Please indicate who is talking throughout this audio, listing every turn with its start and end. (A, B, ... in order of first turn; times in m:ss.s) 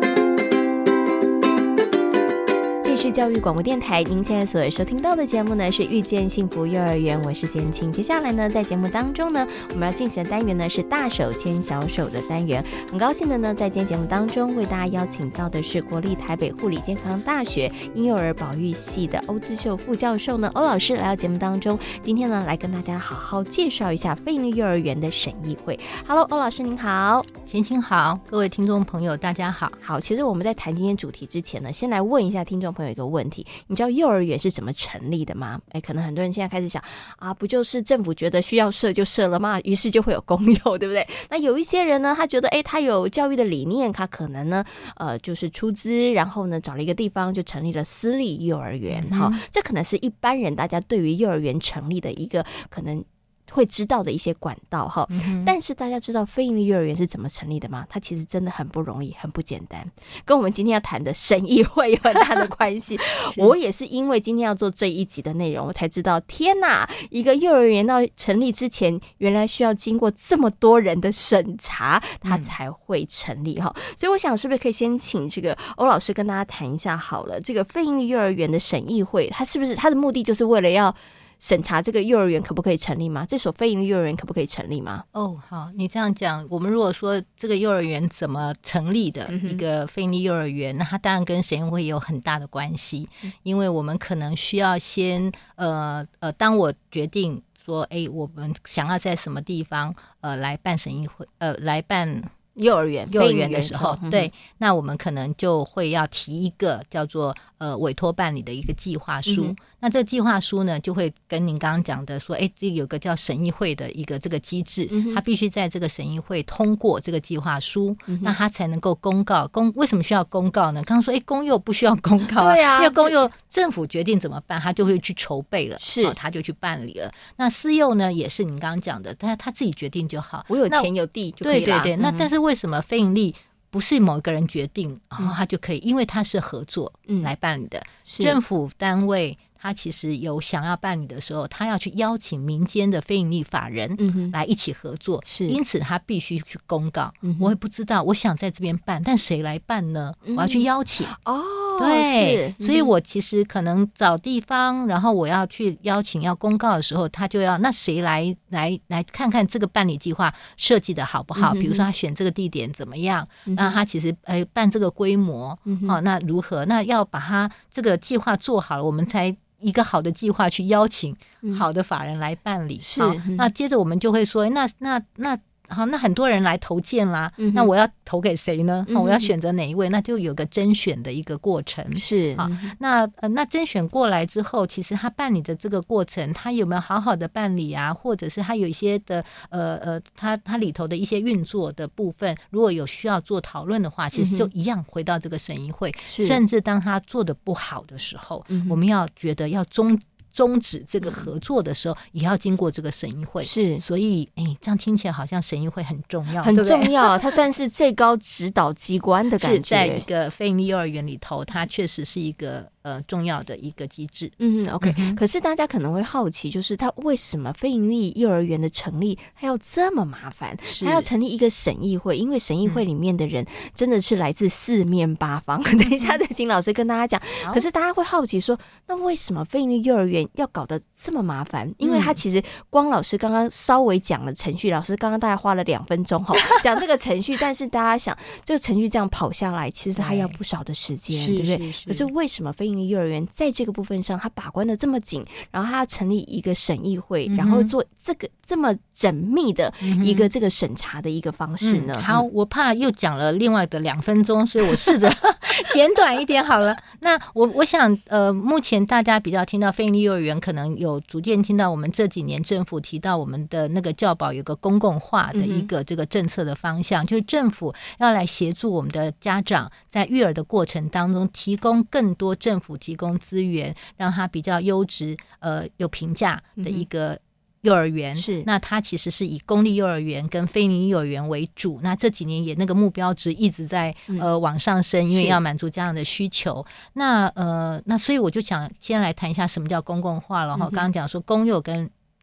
0:02.8-0:27.3 A
0:27.5-0:29.8 B
0:29.8-1:25.0 A
0:48.9-0:49.4 B
0:55.1-0:55.5 B
1:12.2-1:12.5 B
1:25.1-1:42.3 B
1:29.3-1:29.6 A
1:42.6-1:44.3 A
1:43.1-2:10.9 B
1:49.2-1:49.5 A
1:54.9-1:55.2 A
1:58.1-1:58.4 A
2:02.4-2:03.2 A
2:05.8-2:06.2 A
2:10.5-2:12.3 A
2:11.4-2:31.1 B
2:18.0-2:18.4 A
2:24.0-2:24.4 A
2:25.2-2:25.6 A
2:27.2-2:27.5 A
2:30.2-2:32.9 A
2:31.8-3:27.1 B
2:41.4-2:41.8 A
2:43.5-2:43.8 A
2:45.6-2:46.0 A
2:52.8-2:53.5 A
2:57.4-2:57.7 A
2:58.9-2:59.3 A
3:01.9-3:02.7 A
3:14.1-3:14.5 A
3:16.1-3:16.4 A
3:18.5-3:18.8 A
3:21.0-3:21.3 A
3:23.4-3:23.8 A
3:26.4-3:30.0 A
3:29.4-3:35.2 B
3:34.4-4:12.2 A
3:40.7-3:41.1 B
3:51.8-3:52.2 B
4:00.0-4:00.4 B
4:01.1-4:02.1 B
4:07.3-4:07.7 B
4:09.8-4:10.3 B
4:11.6-4:51.9 B
4:25.3-4:25.7 A
4:36.6-4:36.8 A
4:38.2-4:38.5 A
4:45.1-4:45.4 A
4:50.5-4:50.8 A